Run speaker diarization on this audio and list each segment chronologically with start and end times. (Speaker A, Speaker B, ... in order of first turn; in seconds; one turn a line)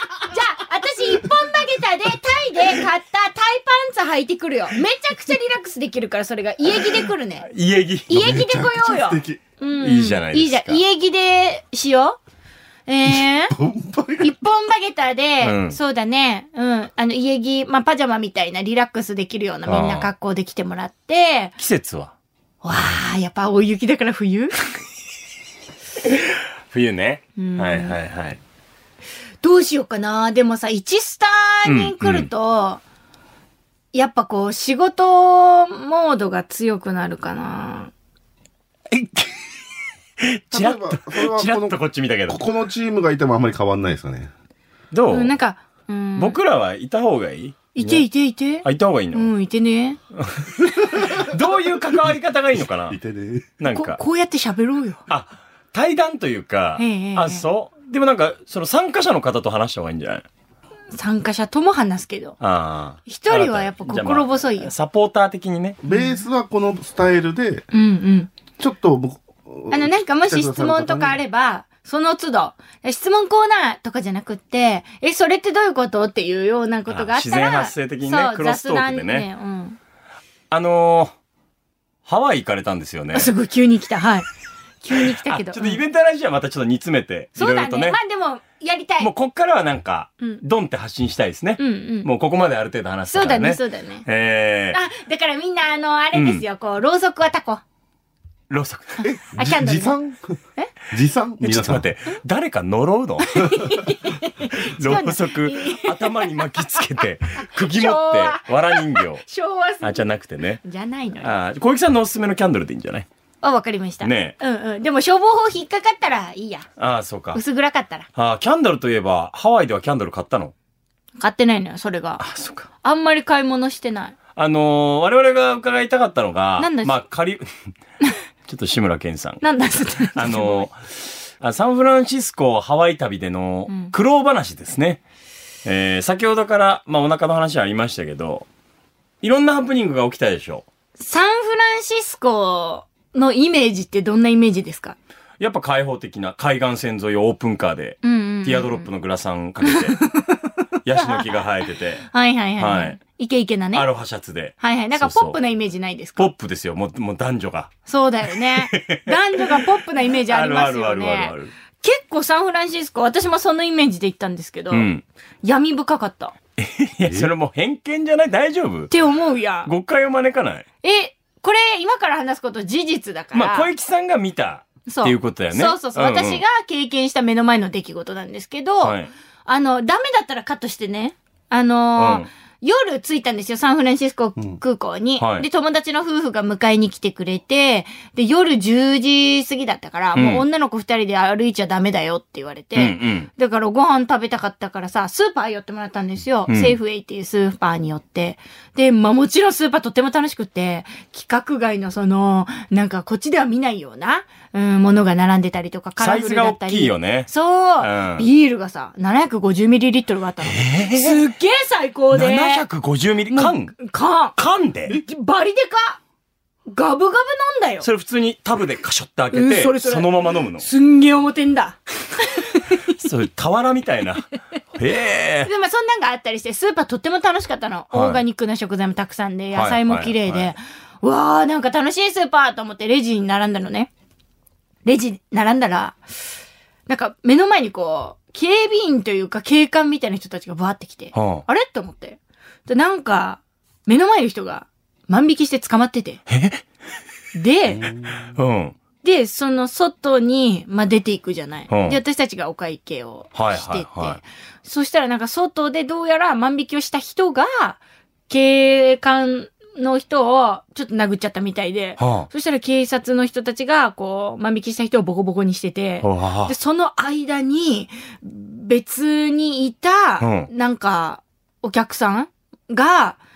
Speaker A: 0.2-7.5
Speaker B: 7.5-8.2
Speaker A: 8.1-12.2
Speaker C: 8.1-9.4
Speaker B: 9.8-10.8
Speaker A: 12.9-13.6
Speaker C: 13.1-14.3
Speaker A: 14.2-21.5
Speaker B: 15.4-15.8
Speaker B: 19.7-20.1
Speaker B: 21.6-22.1
Speaker A: 22.6-24.5
Speaker B: 26.7-28.4
Speaker A: 27.4-28.0
Speaker A: 29.4-32.8
Speaker B: 31.7-32.3
Speaker A: 33.9-37.9
Speaker B: 38.9-39.3
Speaker B: 40.2-42.4
Speaker C: 40.5-44.3
Speaker B: 44.9-45.3
Speaker A: 45.1-46.4
Speaker B: 46.2-48.1
Speaker A: 47.7-50.0
Speaker B: 48.6-49.3
Speaker B: 50.2-53.0
Speaker C: 51.0-51.2
Speaker C: 52.9-53.5
Speaker B: 53.6-54.0
Speaker A: 53.7-55.0
Speaker B: 55.1-60.2
Speaker A: 56.8-57.5
Speaker A: 60.9-62.4
Speaker B: 62.4-65.8
Speaker A: 63.1-64.7
Speaker C: 65.8-67.7
Speaker A: 65.9-66.2
Speaker A: 67.7-68.3
Speaker C: 68.6-71.2
Speaker A: 69.7-79.8
Speaker B: 76.9-79.3
Speaker B: 80.5-81.1
Speaker B: 82.1-83.3
Speaker A: 83.1-84.3
Speaker A: 84.8-85.8
Speaker B: 85.2-88.0
Speaker A: 87.4-89.1
Speaker B: 89.0-94.8
Speaker A: 91.6-92.1
Speaker A: 93.1-94.1
Speaker A: 94.7-97.6
Speaker B: 96.2-96.4
Speaker B: 98.5-99.0
Speaker C: 99.0-100.4
Speaker A: 99.3-100.0
Speaker C: 100.9-101.9
Speaker B: 101.4-103.5
Speaker A: 103.3-106.3
Speaker B: 104.6-109.3
Speaker A: 107.4-110.1
Speaker B: 109.8-110.6
Speaker A: 110.6-111.3
Speaker B: 111.2-113.1
Speaker A: 113.4-116.7
Speaker B: 114.0-114.4
Speaker B: 116.8-117.4
Speaker A: 117.3-118.1
Speaker B: 118.2-120.5
Speaker A: 121.2-122.2
Speaker B: 122.2-122.7
Speaker A: 122.8-124.2
Speaker B: 124.4-127.5
Speaker A: 126.6-127.0
Speaker B: 128.5-129.4
Speaker A: 129.4-130.7
Speaker B: 130.2-135.0
Speaker A: 133.7-133.9
Speaker B: 135.7-138.5
Speaker B: 139.2-140.7
Speaker A: 141.0-145.0
Speaker B: 145.4-150.0
Speaker A: 148.0-148.9
Speaker A: 149.6-151.3
Speaker B: 150.8-153.0
Speaker A: 152.1-153.9
Speaker B: 153.7-155.4
Speaker A: 154.6-156.3
Speaker B: 156.2-157.7
Speaker A: 157.9-164.9
Speaker B: 158.3-159.6
Speaker B: 160.3-161.5
Speaker B: 164.7-165.0
Speaker A: 165.4-166.3
Speaker B: 166.6-168.9
Speaker C: 167.1-167.3
Speaker A: 168.9-169.7
Speaker B: 169.7-170.7
Speaker A: 170.8-173.7
Speaker B: 173.3-176.4
Speaker A: 174.9-212.7
Speaker B: 178.8-179.1
Speaker B: 182.0-182.3
Speaker B: 185.2-185.5
Speaker B: 190.2-190.4
Speaker B: 192.8-193.3
Speaker B: 196.5-196.8
Speaker B: 206.0-208.3
Speaker B: 210.4-211.2
Speaker B: 212.1-213.8
Speaker A: 213.3-214.4
Speaker B: 214.4-215.0
Speaker A: 214.9-216.0
Speaker A: 216.7-217.9
Speaker B: 217.8-220.7
Speaker A: 219.3-222.8
Speaker B: 223.0-225.5
Speaker A: 225.4-233.9
Speaker B: 227.9-228.2
Speaker B: 229.6-230.5
Speaker A: 234.8-236.0
Speaker A: 236.9-246.2
Speaker B: 241.1-241.4
Speaker B: 246.3-246.6
Speaker A: 247.3-247.9
Speaker C: 247.8-248.3
Speaker B: 248.3-248.8
Speaker A: 249.0-273.2
Speaker B: 251.7-252.0
Speaker B: 253.3-254.2
Speaker B: 262.0-262.3
Speaker B: 266.0-266.5
Speaker B: 270.2-270.5